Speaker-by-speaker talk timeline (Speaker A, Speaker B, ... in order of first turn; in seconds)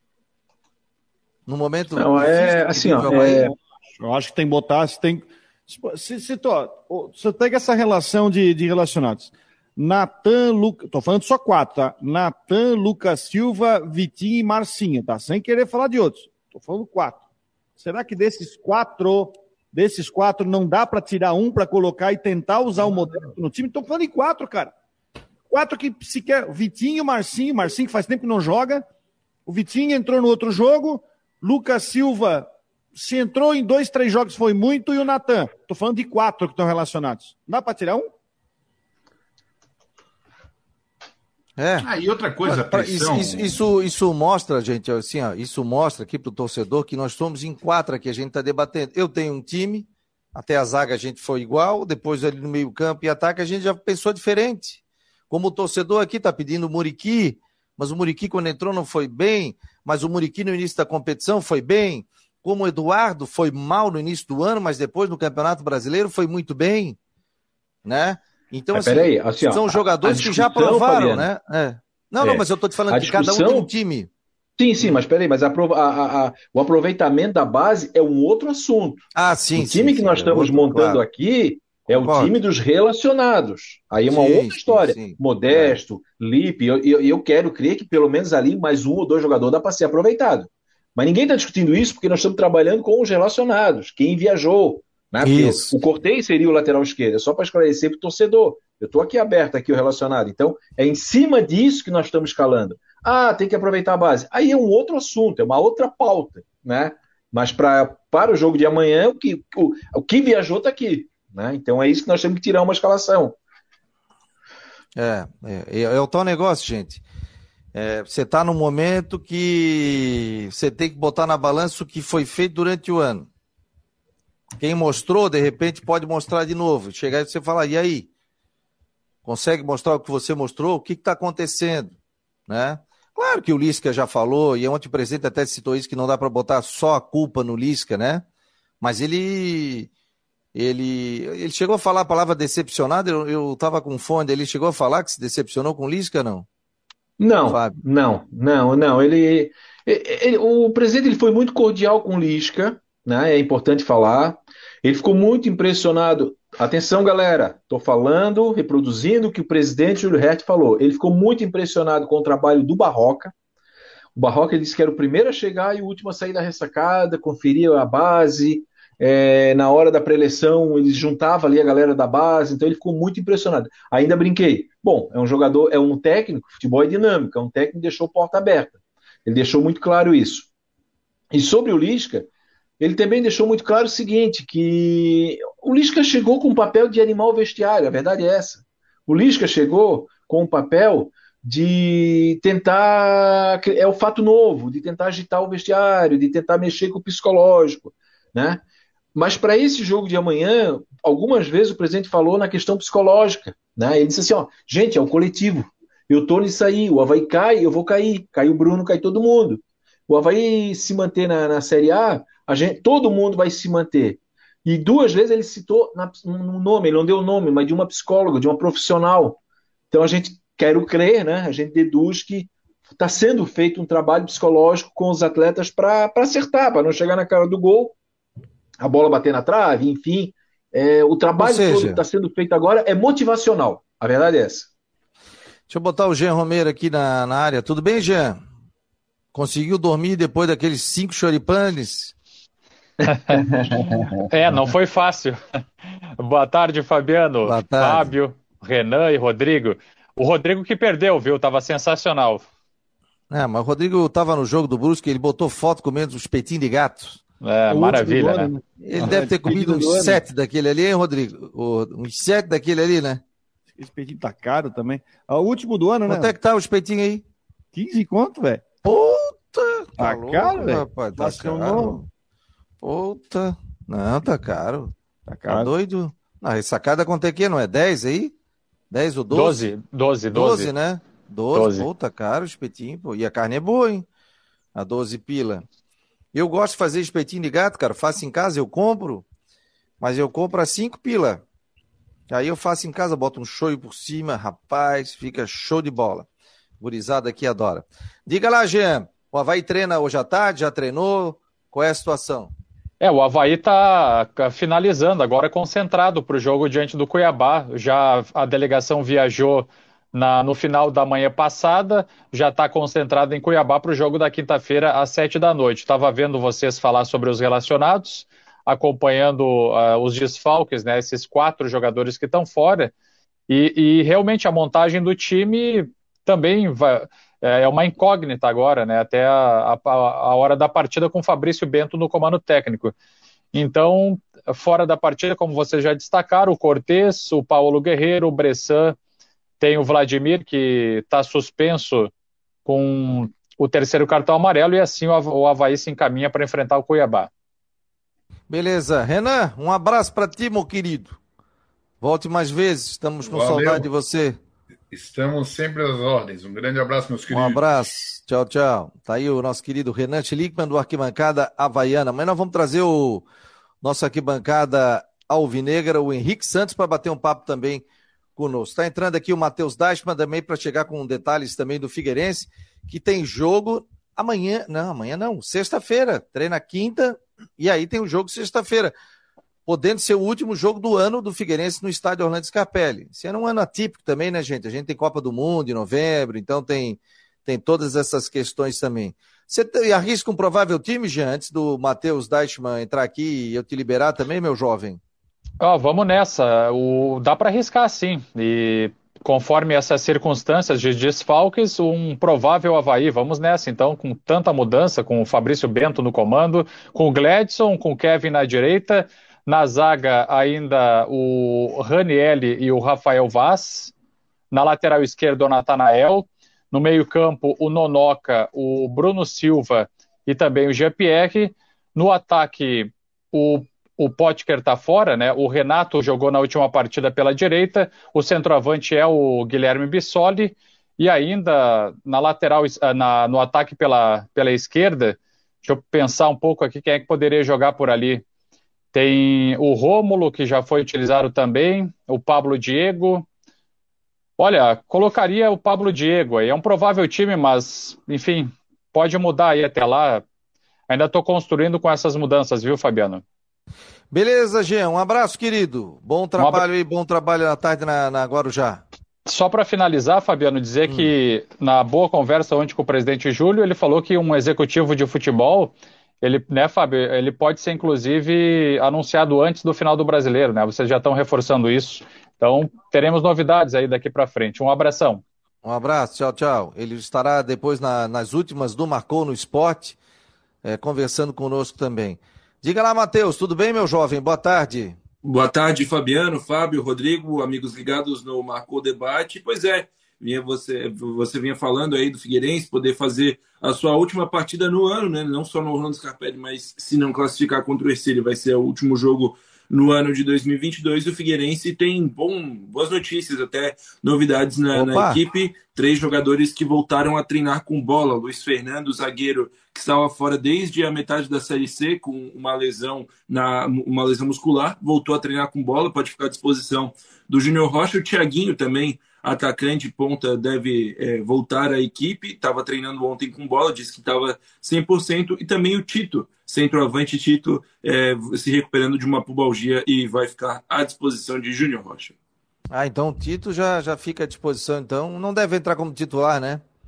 Speaker A: 1.4-3.5, 41.6-41.9, 42.4-67.0, 67.8-74.1, 79.1-81.0, 81.9-82.3, 84.1-85.8, 95.2-95.8, 115.0-117.0, 117.7-123.3, 124.6-128.1, 129.2-131.9, 132.5-138.2, 138.8-139.9, 140.5-146.4, 147.5-147.8, 231.4-232.0, 235.7-238.4, 239.3-242.1, 247.4-248.1, 253.3-257.2, 258.8-263.2, 266.1-267.2, 268.8-272.0, 272.8-274.9, 275.5-278.3, 278.9-279.7, 280.3-284.1, 284.7-285.6, 286.3-289.2, 290.0-291.4, 292.3-296.3, 296.8-302.5, 348.5-351.2, 352.0-354.4, 357.3-363.2, 363.8-367.8, 368.4-378.9, 379.6-395.0, 454.1-458.8, 460.8-461.1, 475.6-480.0, 480.6-485.0, 504.7-505.2, 532.7-536.6
Speaker B: 2.0-3.5, 68.7-71.3, 72.2-73.7, 74.6-79.0, 79.5-113.3, 147.2-163.3, 164.1-180.5, 181.3-182.3, 182.8-198.6, 199.1-219.4, 219.9-227.9, 228.8-234.7, 243.0-244.2
Speaker C: 3.1-17.2, 17.8-24.7, 25.5-28.9, 29.4-38.1, 257.7-260.2, 263.8-266.3, 267.7-268.6, 270.0-272.0, 275.2-275.7
Speaker D: 41.8-43.6, 353.2-353.9, 354.9-357.6
Speaker E: 243.1-243.4, 244.3-245.4, 246.2-252.4, 257.4-258.5, 279.3-280.7, 281.5-281.9, 303.0-322.9, 323.5-332.9, 333.5-338.9, 339.6-342.1, 342.6-347.3, 395.6-413.9, 414.5-438.2, 438.9-443.3, 444.4-450.2, 450.9-453.2, 456.4-456.6, 459.2-475.2
Speaker F: 485.2-532.1